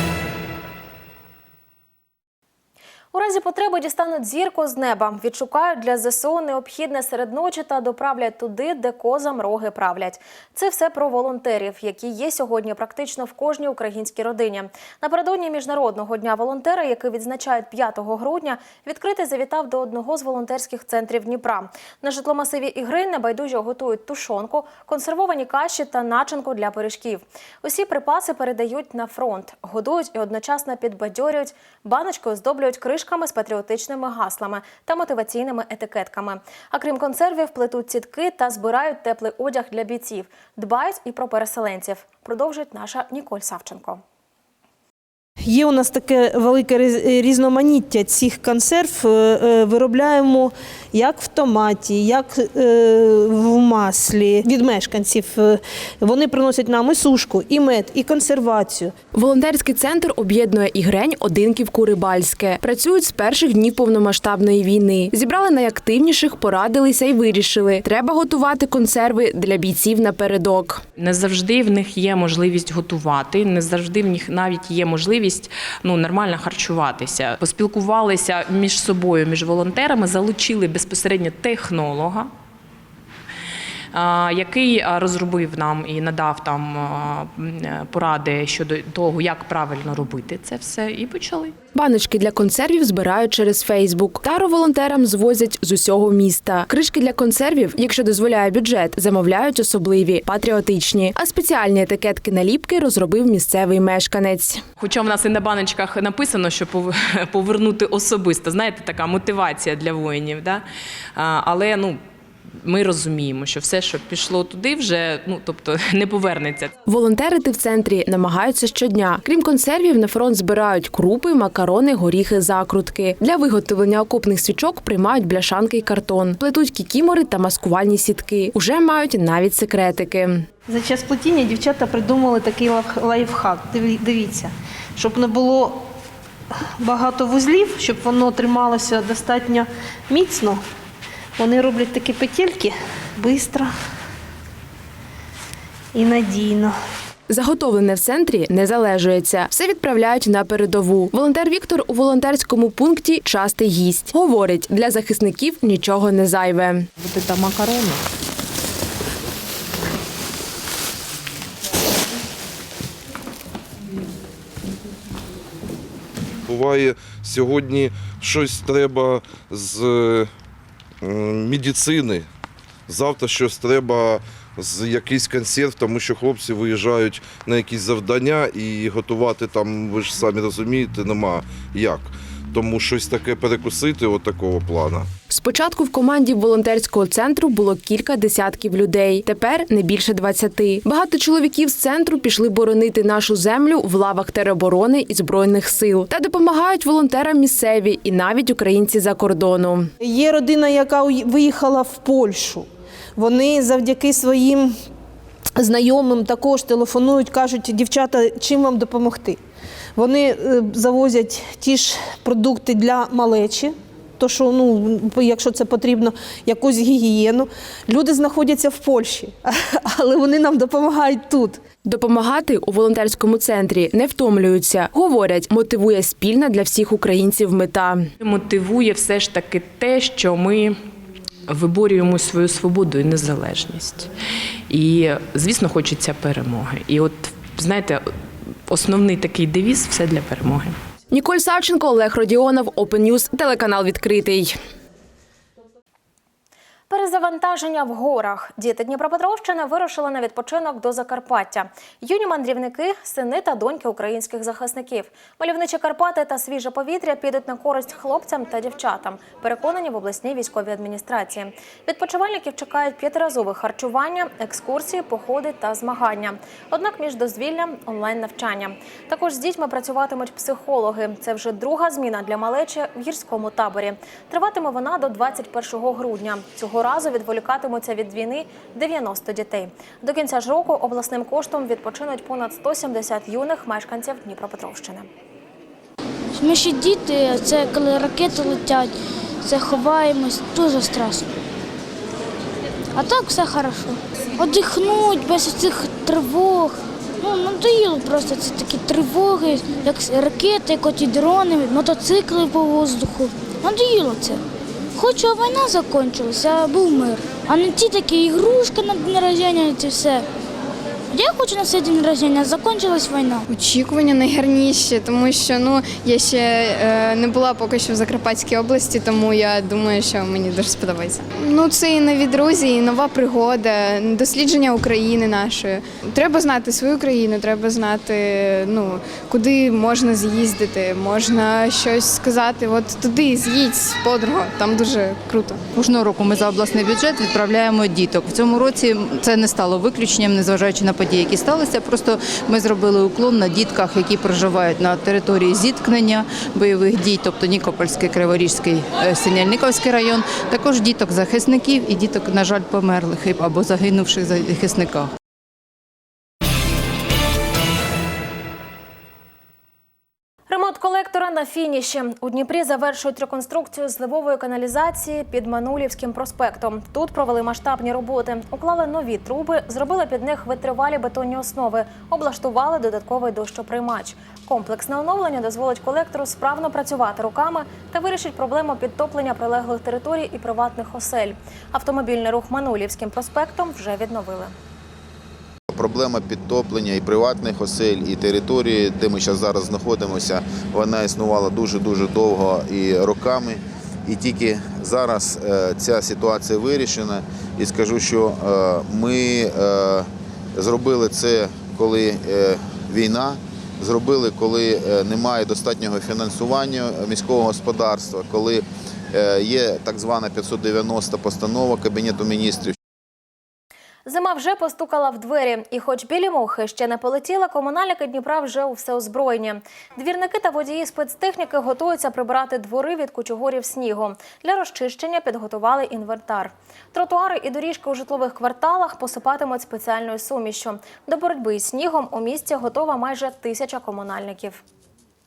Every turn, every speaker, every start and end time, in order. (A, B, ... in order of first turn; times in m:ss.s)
0:03.1-0:44.0 A
0:45.4-0:58.9 B
0:59.1-1:10.8 C
1:11.0-1:22.3 D
1:23.9-1:31.6 D
1:31.7-1:44.6 C
1:44.8-1:50.6 D
1:51.1-1:52.0 D
1:52.6-1:56.7 D
1:56.9-2:10.4 C
2:10.7-2:15.8 B
2:16.8-2:20.6 B
2:21.4-2:23.7 B
2:25.9-2:26.7 B
2:27.3-2:36.9 C
2:37.0-2:37.9 D
2:46.5-2:50.3 E
2:51.0-2:52.3 E
2:52.9-3:05.1 E
3:05.3-3:19.9 C
3:20.0-3:24.8 B
3:25.6-3:29.4 B
3:30.0-3:41.6 B
3:41.8-3:48.0 C
3:48.2-3:50.8 D
3:51.5-3:54.1 D
3:54.7-4:00.8 D
4:01.1-4:04.6 C
4:06.9-4:45.1 A
4:46.4-4:51.3 F
4:52.9-5:04.4 F
5:04.9-5:10.2 F
5:11.1-5:13.4 F
5:13.5-5:35.6 G
5:35.7-5:55.1 H
6:00.5-6:24.5 A
6:25.7-6:52.7 I
6:54.0-7:14.6 A